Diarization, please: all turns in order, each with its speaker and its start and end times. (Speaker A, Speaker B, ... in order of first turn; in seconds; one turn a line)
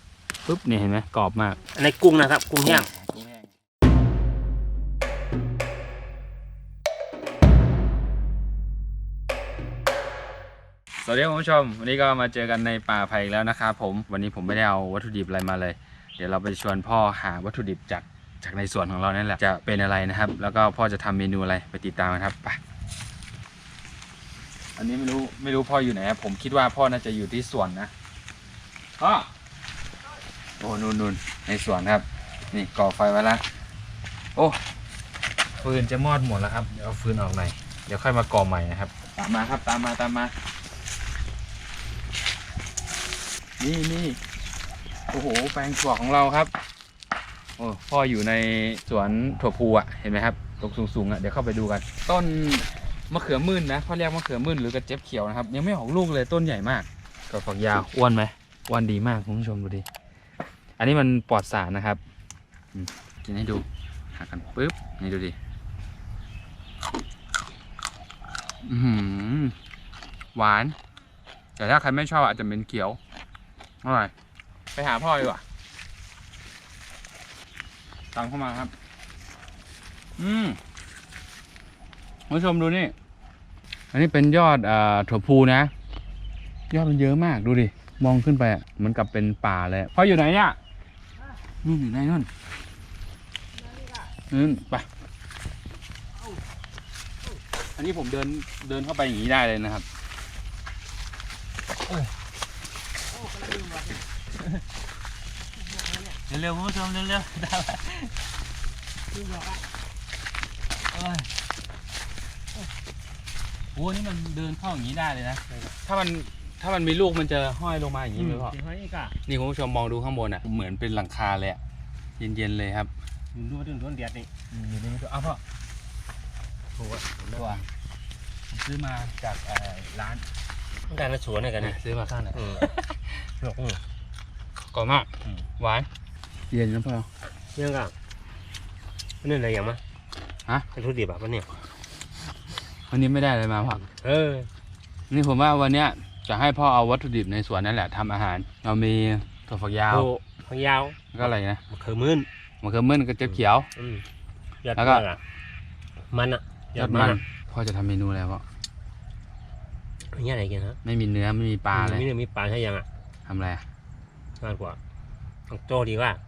Speaker A: 0.5-1.6
Speaker B: 1.8-2.9
Speaker A: 2.6-3.5
Speaker A: 11.0-22.6
Speaker A: 24.8-27.9
Speaker A: 29.0-29.3
Speaker A: 30.6-33.4
Speaker A: 35.6-40.3
Speaker A: 43.6-44.2
Speaker A: 45.1-46.5
Speaker A: 47.6-59.9
Speaker A: 60.8-62.0
Speaker A: 62.8-65.4
Speaker A: 68.6-69.6
Speaker A: 70.3-70.8
Speaker A: 71.6-73.0
Speaker A: 73.8-74.1
Speaker A: 74.7-75.4
Speaker A: 78.1-78.7
Speaker A: 80.2-80.6
Speaker A: 82.3-82.9
Speaker A: 83.9-85.7
Speaker A: 86.7-90.6
Speaker A: 91.6-92.3
Speaker A: 94.3-94.9
Speaker A: 97.8-99.9
Speaker A: 106.3-108.1
Speaker A: 110.9-111.3
Speaker A: 113.8-118.5
Speaker B: 115.5-115.8
Speaker B: 118.2-119.2
Speaker A: 119.3-121.6
Speaker A: 122.2-122.9
Speaker B: 123.3-124.3
Speaker A: 124.5-125.4
Speaker B: 126.8-127.6
Speaker A: 127.3-127.6
Speaker A: 128.5-130.2
Speaker B: 130.9-131.8
Speaker A: 131.6-133.0
Speaker B: 132.3-132.7
Speaker B: 133.4-133.8
Speaker A: 134.7-135.9
Speaker A: 136.5-137.1
Speaker B: 137.6-137.9
Speaker B: 139.2-139.8
Speaker B: 140.8-141.5
Speaker A: 142.9-143.9
Speaker B: 143.9-144.5
Speaker A: 145.1-150.1
Speaker B: 149.9-152.3
Speaker A: 151.1-151.6
Speaker A: 152.6-153.7
Speaker B: 153.8-154.0
Speaker B: 154.6-155.2
Speaker A: 154.8-155.1
Speaker B: 156.1-157.2
Speaker A: 156.8-158.4
Speaker B: 160.1-160.8
Speaker A: 160.8-162.1
Speaker B: 161.7-162.9
Speaker A: 163.3-163.6
Speaker B: 164.4-164.8
Speaker B: 165.5-166.2